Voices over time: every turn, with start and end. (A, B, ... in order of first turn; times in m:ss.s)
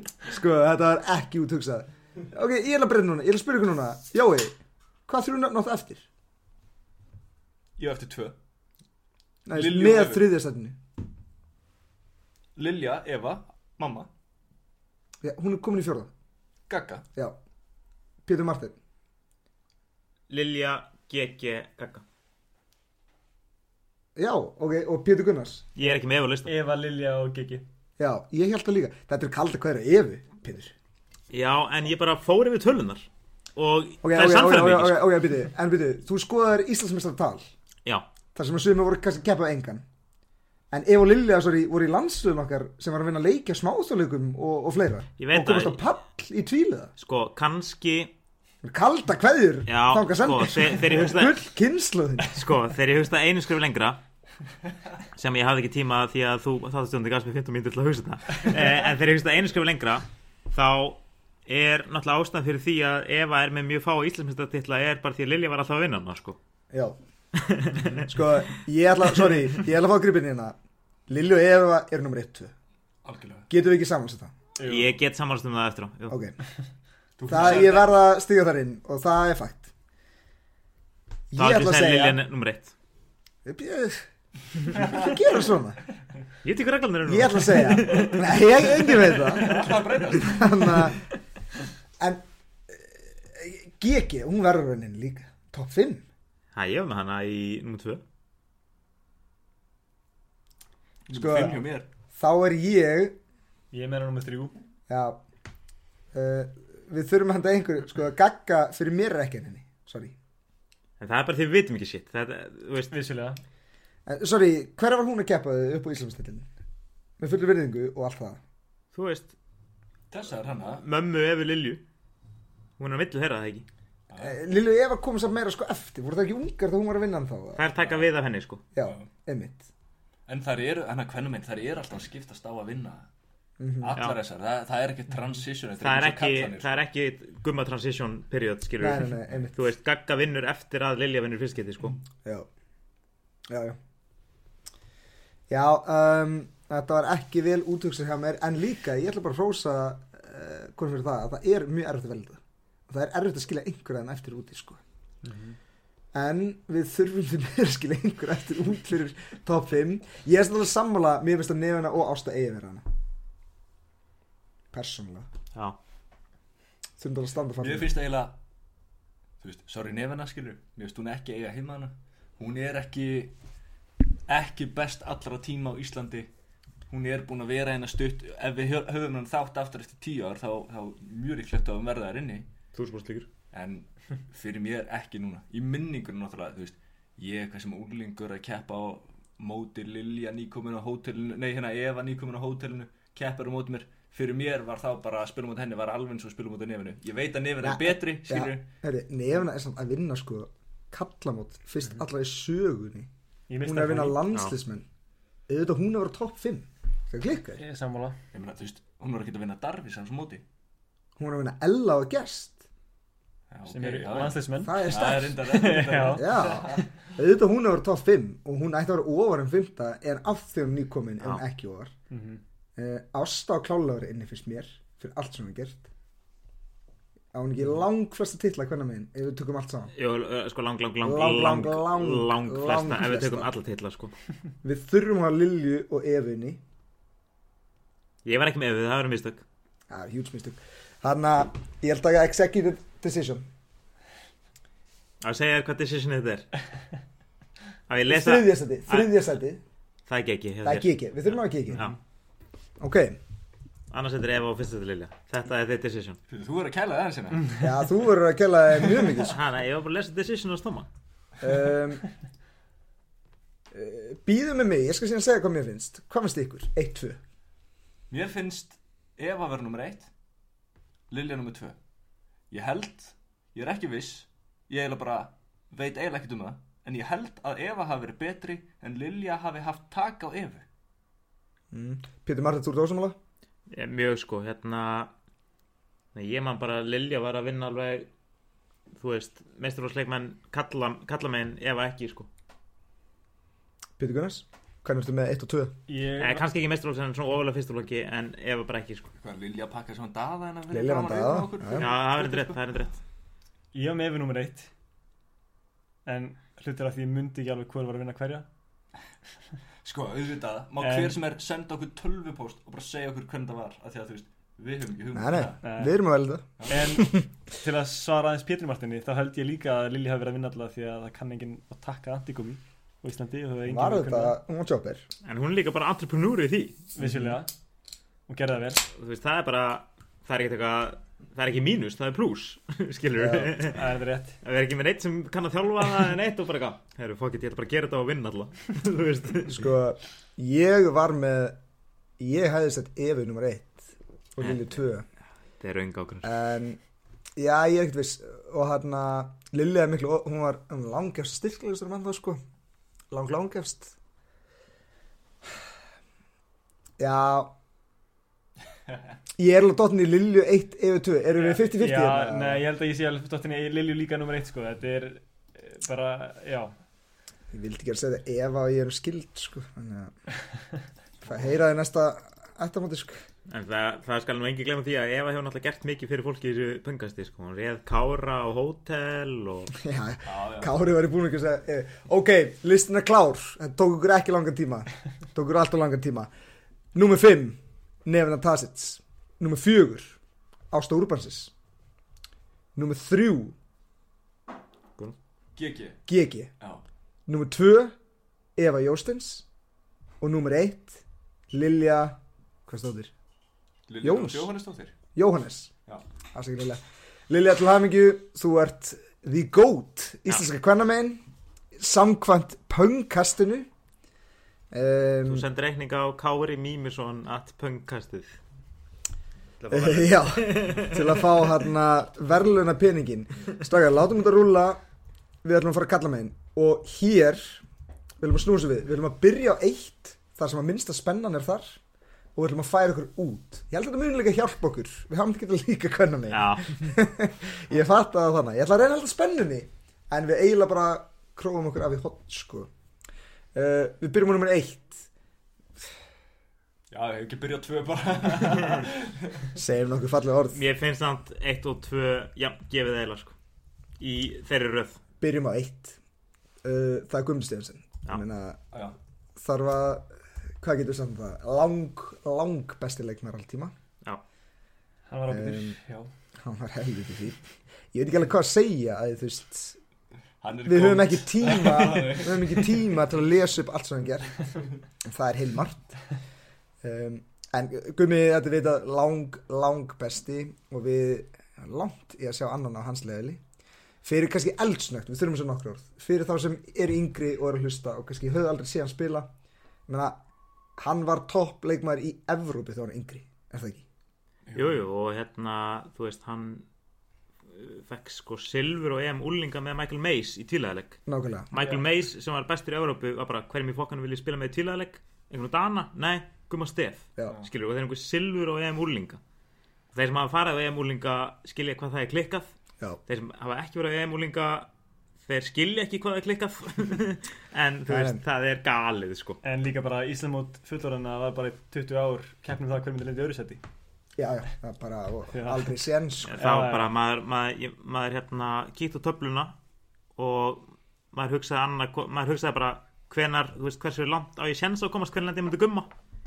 0:00.2-0:04.6 A
0:05.1-0:06.1 A
0:07.8-0:08.4 B
0:09.5-0:10.8 A
0:09.5-0:10.3 B
0:12.6-0:14.1 B
0:15.2-0:16.1 A
0:16.7-0:17.0 B
0:18.2-0:18.8 A
0:20.3-0:22.0 C
0:24.2-0:25.7 A
0:25.8-0:26.5 C
0:25.8-0:27.7 D
0:28.0-0:30.7 A
0:31.3-0:35.1 C
0:34.0-0:37.5 A
0:38.4-0:39.8 A
0:40.7-0:46.9 A
0:45.2-0:45.8 C
0:47.0-0:48.1 C
0:48.6-0:52.4 A
0:49.7-0:51.4 C
0:52.3-0:54.0 C
0:55.1-1:06.4 C
1:06.7-1:07.0 A
1:07.4-1:08.0 C
1:08.0-1:10.6 A
1:11.1-1:12.5 A
1:13.0-1:13.5 B
1:13.5-1:14.3 A
1:14.6-1:14.9 D
1:14.6-1:16.2 C
1:16.1-1:16.4 A
1:17.2-1:17.9 B
1:17.3-1:19.7 A
1:21.3-1:22.2 A
1:21.4-1:22.7 C
1:23.4-1:24.1 A
1:24.6-1:25.8 A
1:26.4-1:28.4 C
1:27.1-1:31.0 A
1:29.2-1:30.7 B
1:32.0-1:36.1 A
1:36.5-1:38.0 C
1:41.1-1:41.9 B
1:41.1-1:41.6 A
1:42.1-1:43.2 A
1:43.7-1:44.5 D
1:44.9-1:45.2 A
1:46.1-1:50.2 A
1:51.0-1:52.9 C
1:52.9-1:53.4 D
1:54.1-1:56.5 A
1:57.2-1:58.4 A
1:58.9-1:59.3 C
2:00.1-2:00.8 B
2:00.8-2:01.8 C
2:02.8-2:03.7 C
2:04.1-2:04.4 B
2:04.2-2:07.7 A
2:07.6-2:08.6 C
2:07.8-2:08.1 B
2:08.7-2:09.7 A
2:08.8-2:09.1 B
2:10.3-2:13.1 B
2:13.6-2:14.0 A
2:13.8-2:16.8 B
2:15.8-2:22.0 C
2:18.8-2:19.6 A
2:23.5-2:23.8 A
2:25.5-2:34.8 A
2:35.2-2:35.6 D
2:36.1-2:42.8 A
2:44.7-2:45.3 A
2:47.0-2:48.0 A
2:47.6-2:48.4 B
2:49.4-2:53.4 B
2:54.3-2:56.3 B
2:56.9-3:02.5 B
3:02.8-3:03.3 C
3:03.5-3:18.7 B
3:17.6-3:23.1 A
3:23.5-3:24.2 D
3:23.6-3:24.9 A
3:25.5-3:27.6 A
3:27.6-3:28.2 D
3:28.3-3:30.4 B
3:31.2-3:32.6 A
3:33.5-3:36.8 B
3:33.7-3:36.8 D
3:34.6-3:35.4 A
3:36.1-3:41.9 A
3:42.1-3:42.4 D
3:42.8-3:45.9 A
3:47.3-3:49.9 A
3:50.0-3:54.1 C
3:51.0-3:53.5 A
3:54.6-3:56.6 A
3:58.2-3:59.4 C
3:59.9-4:03.5 A
4:05.2-4:06.6 C
4:07.9-4:09.2 C
4:08.1-4:09.6 A
4:10.1-4:12.0 C
4:10.6-4:11.9 A
4:12.8-4:13.2 A
4:13.9-4:16.2 C
4:16.3-4:17.7 B
4:17.6-4:19.4 A
4:19.3-4:20.9 C
4:21.4-4:22.0 A
4:23.7-4:27.2 A
4:28.1-4:30.1 B
4:31.1-4:31.8 B
4:32.5-4:40.6 B
4:41.7-4:43.2 A
4:43.7-4:45.1 C
4:46.2-4:48.1 C
4:49.0-4:52.3 C
4:54.0-4:55.8 A
4:55.9-4:56.5 D
4:56.2-4:59.1 C
4:59.2-5:02.6 B
5:00.7-5:01.9 A
5:01.8-5:03.0 C
5:03.7-5:04.7 D
5:06.1-5:08.5 D
5:09.8-5:15.6 B
5:10.8-5:11.2 D
5:15.1-5:16.5 A
5:15.6-5:16.0 D
5:16.6-5:17.0 B
5:16.7-5:24.4 D
5:23.7-5:25.1 A
5:25.2-5:26.9 C
5:27.0-5:27.5 D
5:27.0-5:27.4 A
5:28.3-5:28.9 D
5:28.9-5:33.9 C
5:33.2-5:33.6 A
5:33.7-5:34.4 D
5:34.4-5:39.6 C
5:39.5-5:41.6 A
5:42.2-5:45.1 A
5:44.4-5:44.7 C
5:45.6-5:46.3 C
5:46.2-5:46.8 A
5:47.4-5:52.4 A
5:53.1-5:53.9 A
5:57.0-5:57.5 A
5:59.4-6:02.6 A
6:01.4-6:06.7 D
6:07.5-6:10.1 A
6:11.2-6:13.2 A
6:13.5-6:19.8 C
6:19.8-6:26.3 A
6:20.3-6:20.7 B
6:26.9-6:30.2 A
6:30.7-6:31.5 A
6:32.8-6:33.6 A
6:35.6-6:36.0 B
6:36.1-6:36.5 A
6:37.3-6:38.0 A
6:38.6-6:39.4 A
6:40.2-6:43.1 A
6:43.9-6:45.0 B
6:44.0-6:44.5 A
6:45.2-6:45.7 A
6:46.3-6:51.2 A
6:51.8-6:53.7 A
6:54.7-6:55.4 A
6:55.3-6:58.4 C
6:59.6-7:01.3 C
6:59.7-7:04.8 A
7:05.4-7:07.6 A
7:08.2-7:11.8 A
7:12.4-7:22.7 A
7:16.3-7:16.8 C
7:23.6-7:25.1 A
7:26.9-7:29.5 B
7:29.6-7:30.6 A
7:30.5-7:33.4 C
7:34.0-7:35.0 C
7:35.2-7:36.0 A
7:36.6-7:38.6 A
7:39.4-7:43.7 A
7:45.1-7:46.1 D
7:45.3-7:45.8 A
7:46.4-7:49.8 A
7:50.4-7:52.8 B
7:50.6-7:54.5 A
7:55.0-7:56.0 A
7:56.8-8:03.4 A
8:04.0-8:09.3 A
8:09.9-8:10.2 A
8:10.8-8:13.8 A
8:14.5-8:14.8 B
8:14.5-8:16.7 C
8:17.5-8:21.0 C
8:21.1-8:21.5 A
8:21.5-8:29.2 C
8:29.9-8:32.5 C
8:33.1-8:34.7 C
8:35.2-8:39.4 C
8:37.9-8:38.2 A
8:39.4-8:43.6 D
8:44.2-8:46.4 A
8:45.3-8:45.7 D
8:46.3-8:49.6 C
8:46.4-8:46.9 D
8:50.2-8:55.9 C